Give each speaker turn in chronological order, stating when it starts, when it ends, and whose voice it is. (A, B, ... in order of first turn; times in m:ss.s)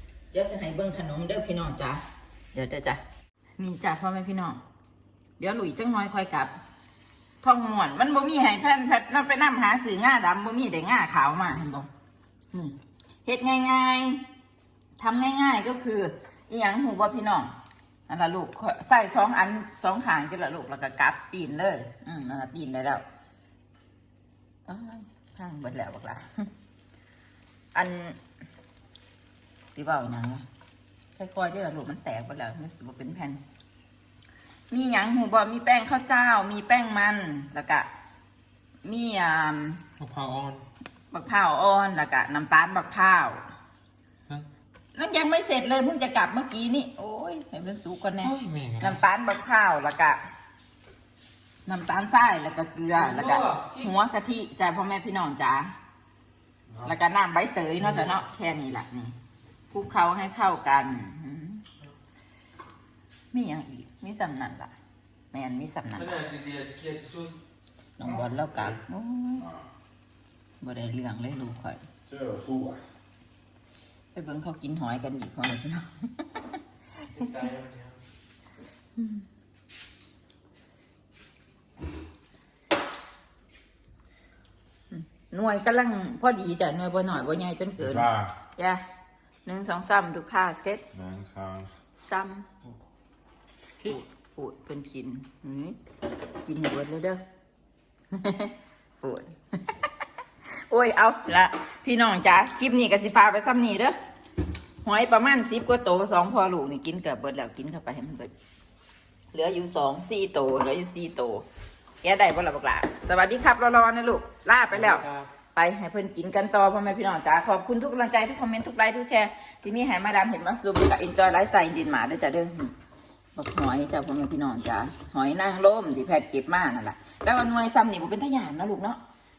0:00.3-0:02.0 A
0:02.5-0:03.0 A
0:03.6-0:04.6 A
0:05.4-0:06.5 A
0:07.4-0:11.9 A
0:12.5-0:14.2 A
0:15.0-0:17.5 A
0:18.1-0:23.0 A
0:24.7-0:26.5 A
0:27.7-0:28.2 A
0:29.7-0:30.4 A
0:31.2-0:33.4 A
0:34.7-0:37.9 A
0:38.8-0:39.8 A
0:40.0-0:40.6 B
0:41.1-0:43.5 A
0:45.0-0:50.2 A
0:48.2-0:49.0 B
0:51.7-0:55.7 A
0:52.9-0:53.9 B
0:56.8-0:59.2 A
0:57.8-0:58.2 B
0:59.7-1:01.6 A
1:03.3-1:04.7 A
1:05.3-1:06.2 A
1:06.0-1:07.4 B
1:08.0-1:09.5 A
1:08.0-1:08.8 C
1:09.4-1:09.7 C
1:10.6-1:11.8 A
1:12.1-1:12.9 C
1:14.1-1:16.6 A
1:17.1-1:18.0 B
1:24.9-1:28.8 A
1:27.8-1:28.3 C
1:29.4-1:30.8 A
1:30.9-1:31.7 C
1:32.0-1:32.5 A
1:33.8-1:35.8 A
1:36.4-1:37.2 A
1:38.1-1:39.7 A
1:40.5-1:44.0 A
1:44.8-1:48.3 A
1:49.3-1:51.4 A
1:52.0-1:55.0 A
1:54.7-1:55.3 B
1:55.6-2:02.7 A
2:03.4-2:09.0 A